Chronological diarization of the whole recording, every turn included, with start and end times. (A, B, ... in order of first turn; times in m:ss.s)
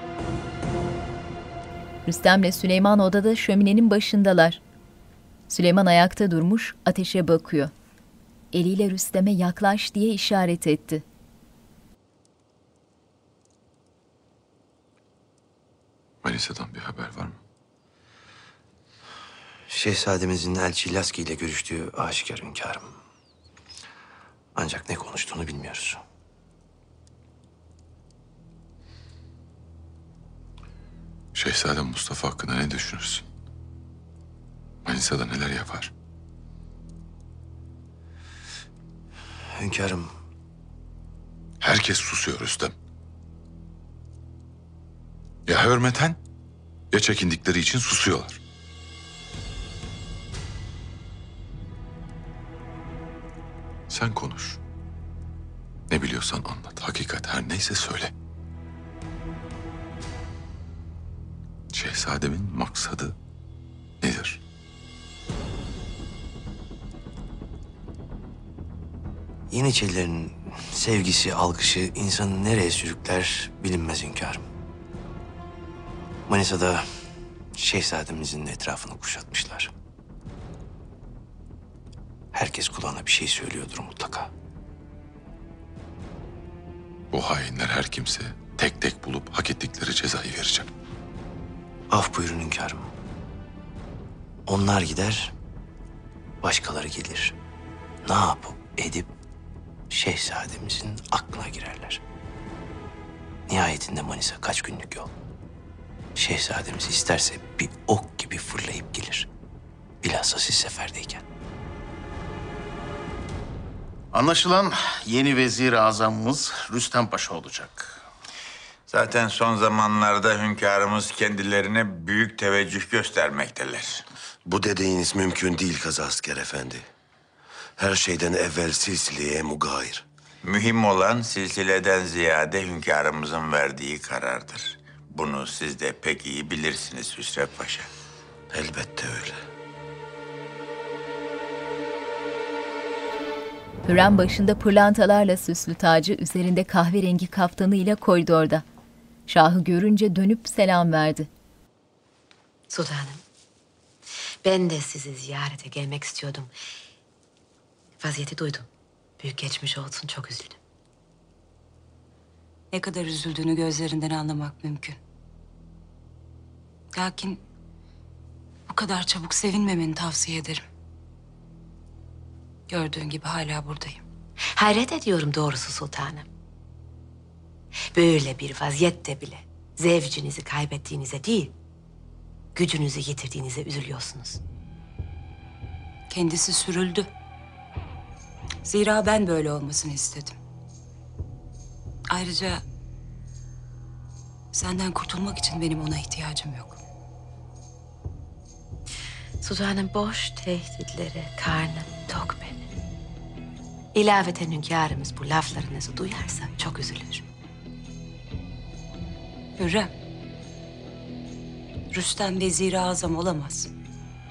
0:02.0-0:04.6 A
0:05.5-0:07.7 A
0:08.5-0:11.0 A
0:16.2-0:17.4 B
0:19.7-0:23.0 C
0:24.5-0:26.0 C
0:31.3-0:33.2 B
0:34.8-0:35.9 B
0:39.6-0:40.2 C
0:41.6-0:42.7 B
0:45.4-0:46.2 B
0:46.9-0:48.4 B
0:53.9-0:54.6 B
0:55.9-0:58.1 B
1:01.7-1:03.2 B
1:04.0-1:04.4 B
1:09.5-1:14.4 C
1:16.3-1:16.9 C
1:17.5-1:19.7 C
1:22.3-1:24.3 C
1:27.1-1:30.7 B
1:31.9-1:32.9 C
1:34.5-1:35.3 C
1:36.4-1:37.3 C
1:38.0-1:39.1 C
1:39.9-1:42.0 C
1:43.5-1:45.1 C
1:46.2-1:49.3 C
1:50.0-1:51.2 C
1:54.1-1:58.0 D
1:58.9-2:04.0 E
2:04.4-2:06.9 F
2:07.8-2:10.0 F
2:10.4-2:17.9 E
2:18.5-2:19.4 F
2:23.8-2:28.6 A
2:29.3-2:31.3 A
2:32.7-2:33.2 G
2:34.4-2:36.5 G
2:38.0-2:38.7 G
2:39.2-2:40.6 G
2:42.7-2:45.0 H
2:46.9-2:47.4 H
2:48.7-2:50.6 H
2:52.7-2:54.0 H
2:54.6-2:56.3 G
2:57.9-3:01.5 G
3:02.5-3:04.4 G
3:06.1-3:07.1 H
3:08.6-3:10.4 H
3:12.1-3:12.6 H
3:14.5-3:16.8 H
3:19.4-3:22.7 G
3:23.9-3:27.2 G
3:29.6-3:29.9 H
3:31.9-3:33.7 H